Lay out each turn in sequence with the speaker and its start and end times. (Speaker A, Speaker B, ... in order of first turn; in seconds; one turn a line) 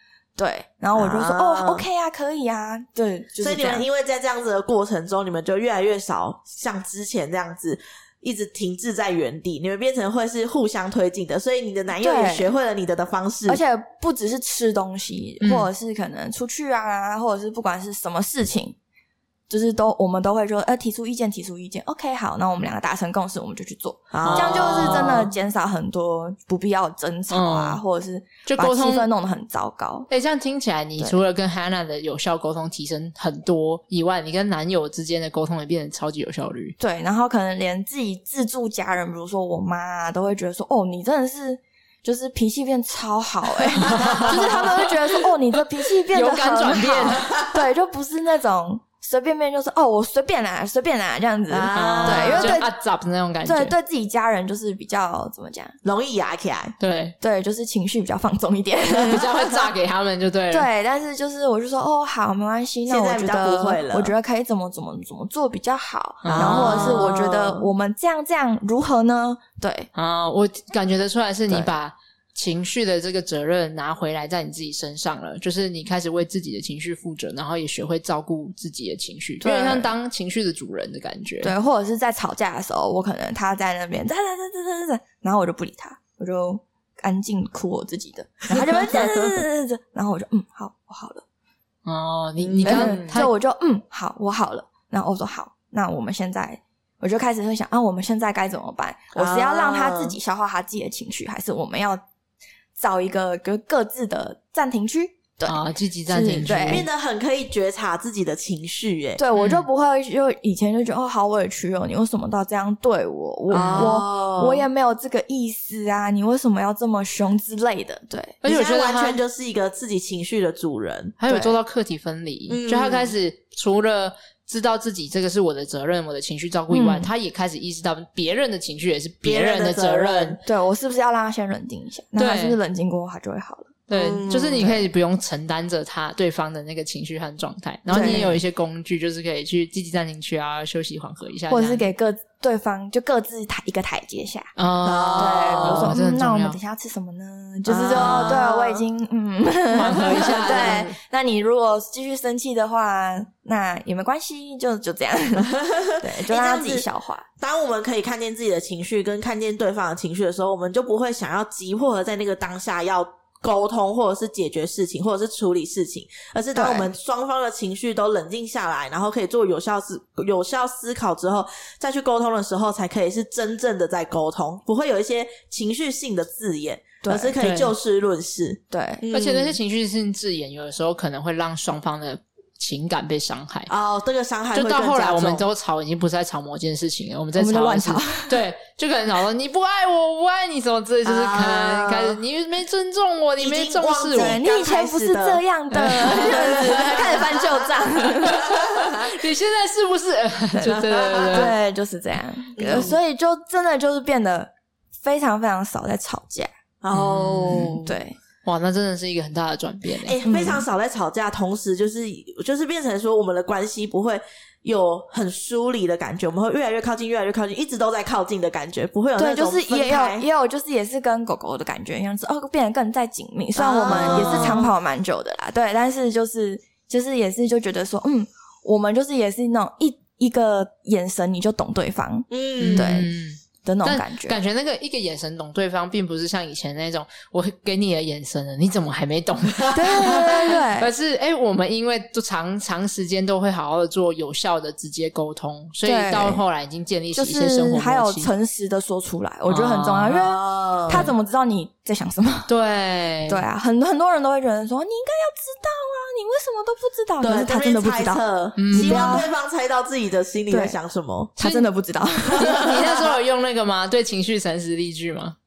Speaker A: 0.4-3.9
Speaker B: 0.9-1.8
Speaker B: 3.4-13.6
Speaker A: 12.0-12.5
Speaker A: 13.5-18.8
Speaker C: 15.4-15.7
Speaker A: 19.5-30.1
Speaker B: 24.1-25.2
Speaker C: 24.2-25.3
Speaker C: 27.3-27.8
Speaker C: 28.4-29.1
Speaker C: 30.1-36.8
Speaker A: 36.8-52.7
Speaker B: 43.9-44.7
Speaker C: 43.9-44.9
Speaker C: 46.1-47.3
Speaker B: 47.2-47.5
Speaker B: 51.5-52.6
Speaker C: 51.7-53.7
Speaker A: 53.5-55.8
Speaker B: 55.8-56.7
Speaker C: 56.8-57.1
Speaker A: 57.2-59.3
Speaker C: 59.0-60.7
Speaker A: 60.5-69.9
Speaker B: 62.9-64.1
Speaker C: 66.2-67.1
Speaker B: 66.2-67.7
Speaker C: 69.9-81.5
Speaker A: 79.4-79.9
Speaker A: 81.4-91.2
Speaker B: 88.5-89.2
Speaker C: 91.8-93.3
Speaker B: 92.4-93.1
Speaker A: 92.6-102.0
Speaker B: 99.1-100.2
Speaker A: 102.8-106.8
Speaker C: 105.5-106.8
Speaker B: 106.7-109.2
Speaker A: 109.2-118.4
Speaker C: 109.3-109.7
Speaker C: 113.5-114.0
Speaker B: 113.5-114.7
Speaker C: 118.4-119.2
Speaker B: 118.4-121.1
Speaker C: 121.2-130.4
Speaker A: 121.3-121.5
Speaker B: 122.5-123.1
Speaker A: 126.7-127.1
Speaker B: 129.2-130.4
Speaker A: 130.4-133.7
Speaker C: 132.2-132.6
Speaker C: 133.9-141.9
Speaker B: 133.9-134.8
Speaker A: 137.9-138.4
Speaker B: 138.0-138.3
Speaker A: 141.5-144.5
Speaker C: 144.6-146.6
Speaker B: 144.8-145.9
Speaker A: 145.1-157.2
Speaker B: 147.7-148.8
Speaker C: 149.7-150.9
Speaker B: 150.0-150.9
Speaker B: 155.4-156.8
Speaker B: 157.4-179.6
Speaker A: 166.5-166.9
Speaker A: 177.0-177.3
Speaker C: 177.4-177.7
Speaker A: 178.7-179.0
Speaker C: 179.1-183.7
Speaker B: 183.7-185.5
Speaker C: 184.5-194.4
Speaker A: 187.3-188.4
Speaker B: 191.0-192.2
Speaker B: 193.4-197.7
Speaker A: 194.2-198.7
Speaker C: 195.7-196.5
Speaker B: 198.3-199.1
Speaker C: 198.3-201.5
Speaker B: 200.6-201.5
Speaker A: 201.3-206.5
Speaker B: 202.6-203.0
Speaker B: 206.8-207.9
Speaker C: 206.9-207.8
Speaker A: 207.5-208.2
Speaker C: 208.4-210.2
Speaker B: 210.0-220.2
Speaker A: 210.2-210.6
Speaker A: 219.2-233.1
Speaker B: 223.6-224.7
Speaker C: 223.9-224.6
Speaker B: 232.3-233.0
Speaker C: 232.6-248.3
Speaker A: 233.6-234.4
Speaker A: 239.7-240.9
Speaker A: 245.8-246.4
Speaker A: 247.1-252.5
Speaker C: 249.5-250.4
Speaker B: 250.4-251.1
Speaker C: 252.5-253.4
Speaker A: 253.3-259.3
Speaker B: 257.2-261.6
Speaker C: 258.6-259.2
Speaker A: 260.5-260.8
Speaker A: 261.4-262.9
Speaker B: 262.3-263.2
Speaker C: 262.4-265.4